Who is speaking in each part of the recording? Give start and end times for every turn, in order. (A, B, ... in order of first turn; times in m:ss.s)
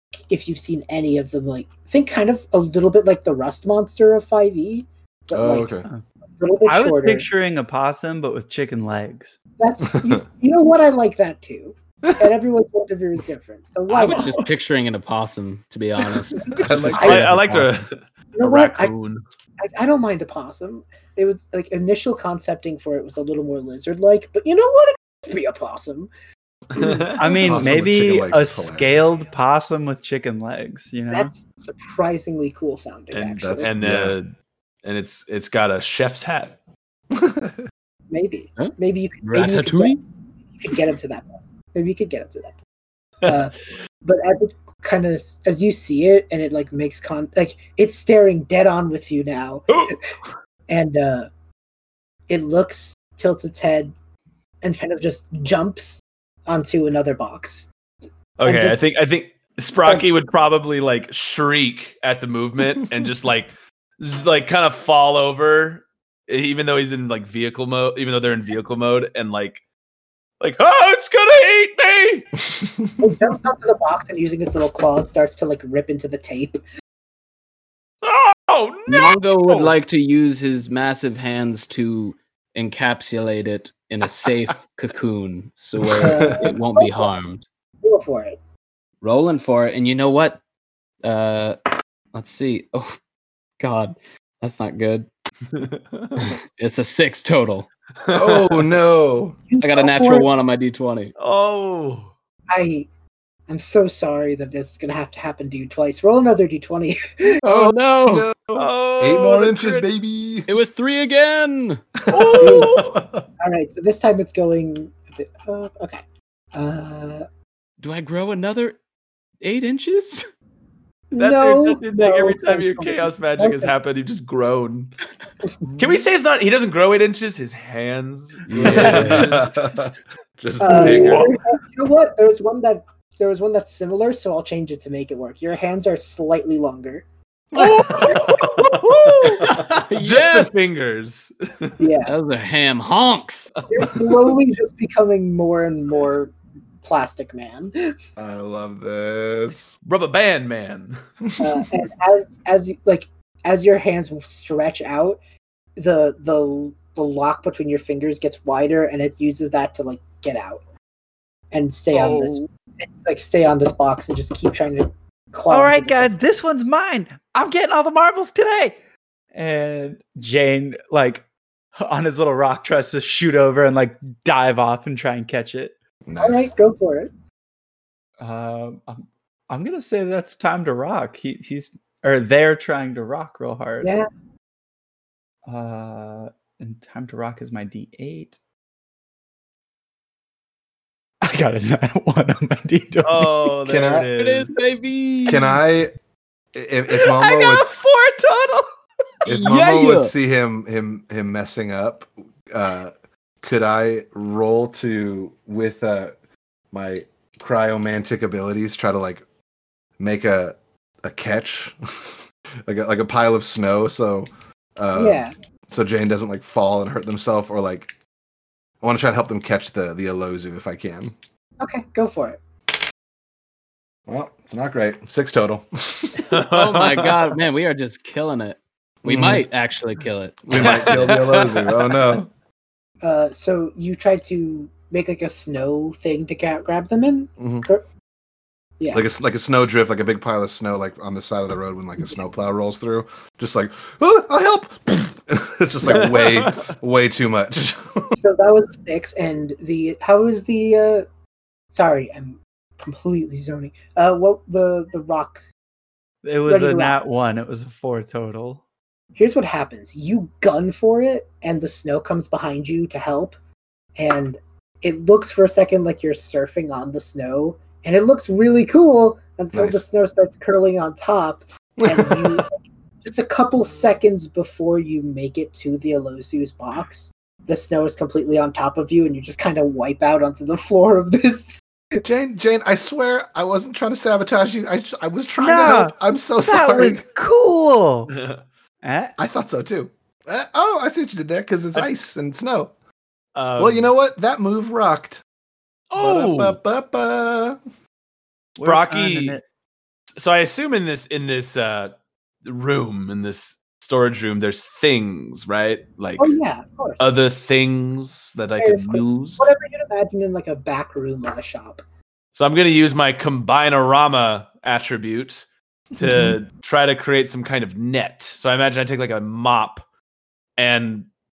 0:00.3-0:05.8 A
0:05.3-0:05.9 B
0:06.4-0:07.3 A
0:06.6-0:09.4 C
0:09.6-0:14.4 A
0:09.9-0:10.3 B
0:13.9-0:17.7 D
0:14.1-0:14.5 E
0:16.4-0:17.2 B
0:16.8-0:17.3 A
0:16.9-0:19.2 E
0:18.4-0:18.9 A
0:19.6-0:26.1 A
0:26.7-0:27.6 E
0:27.2-0:31.3 C
0:27.4-0:29.1 B
0:31.1-0:33.7 A
0:33.1-0:34.3 E
0:33.4-0:34.2 B
0:34.8-0:36.6 E
0:37.1-0:37.6 B
0:38.1-0:40.0 A
0:38.6-0:40.0 D
0:40.6-0:42.6 A
0:43.2-0:50.0 A
0:50.7-0:51.3 A
0:52.3-0:54.0 A
0:54.6-0:57.7 A
0:58.4-1:09.6 E
0:58.4-0:58.8 A
1:10.4-1:12.3 E
1:12.5-1:13.0 B
1:13.0-1:16.6 A
1:18.0-1:19.7 E
1:18.9-1:27.4 D
1:26.0-1:26.4 B
1:26.0-1:27.1 A
1:27.8-1:28.4 A
1:29.0-1:30.4 D
1:31.0-1:31.6 D
1:32.1-1:33.0 D
1:33.6-1:35.1 D
1:35.5-1:36.3 E
1:36.2-1:37.7 D
1:38.0-1:38.7 E
1:38.1-1:39.4 B
1:39.5-1:40.3 A
1:39.6-1:41.1 D
1:41.2-1:42.1 E
1:42.5-1:42.9 A
1:43.5-1:47.4 A
1:47.4-1:50.5 B
1:47.4-1:48.3 D
1:48.6-1:49.9 E
1:50.5-1:51.8 D
1:52.1-1:52.8 E
1:52.1-1:53.3 B
1:52.4-1:52.8 A
1:52.4-1:52.8 D
1:53.4-1:56.0 A
1:56.5-1:57.2 A
1:57.8-1:58.8 D
1:59.4-2:00.2 D
2:01.1-2:03.7 A
2:01.2-2:04.9 E
2:05.8-2:09.6 E
2:08.5-2:09.4 D
2:08.6-2:11.3 B
2:08.8-2:09.1 C
2:10.6-2:17.0 A
2:10.7-2:11.3 E
2:17.5-2:18.3 B
2:17.6-2:21.8 E
2:18.6-2:20.7 D
2:19.2-2:19.6 B
2:21.8-2:22.1 A
2:22.0-2:23.6 D
2:23.7-2:28.0 A
2:28.2-2:29.8 B
2:29.8-2:31.0 E
2:31.3-2:31.6 B
2:31.4-2:35.2 A
2:35.8-2:40.6 A
2:41.5-2:46.2 A
2:41.9-2:42.4 D
2:45.5-2:48.8 C
2:49.3-2:55.8 C
2:56.1-2:56.5 B
2:56.2-2:57.1 A
2:58.2-3:03.9 C
3:05.5-3:08.4 C
3:11.2-3:13.6 C
3:13.0-3:14.5 E
3:13.7-3:14.1 B
3:14.2-3:15.6 D
3:15.3-3:15.9 B
3:16.5-3:17.9 B
3:17.0-3:18.6 D
3:19.2-3:20.1 D
3:19.3-3:26.2 B
3:26.7-3:29.2 B
3:30.0-3:37.9 B
3:34.9-3:35.3 A
3:38.8-3:41.1 B
3:41.6-3:42.4 A
3:44.1-3:46.3 B
3:46.3-3:47.2 E
3:46.4-3:51.8 D
3:49.0-3:49.5 B
3:50.5-3:52.3 B
3:50.5-3:51.5 E
3:53.0-3:57.8 A
3:57.4-3:57.7 B
3:58.8-3:59.1 A
3:58.9-4:08.2 B
4:05.8-4:06.7 E
4:08.2-4:11.1 A
4:11.7-4:15.4 A
4:16.2-4:18.6 C
4:16.5-4:17.0 A
4:19.2-4:23.4 A
4:24.0-4:41.6 A
4:29.5-4:29.8 B
4:31.8-4:32.4 B
4:41.9-4:47.0 B
4:45.4-4:46.0 C
4:46.5-4:48.1 C
4:48.1-4:48.4 E
4:48.8-4:49.1 C
4:49.2-4:52.7 B
4:53.4-4:53.9 E
4:53.6-4:55.2 B
4:55.9-4:56.6 E
4:56.0-4:57.6 B
4:58.6-4:59.4 E
4:58.6-4:59.4 C
5:00.2-5:06.4 E
5:06.2-5:07.2 A
5:07.0-5:09.4 E
5:08.6-5:11.8 A
5:12.3-5:15.5 E
5:16.0-5:19.8 E
5:16.0-5:16.3 B
5:20.6-5:21.1 E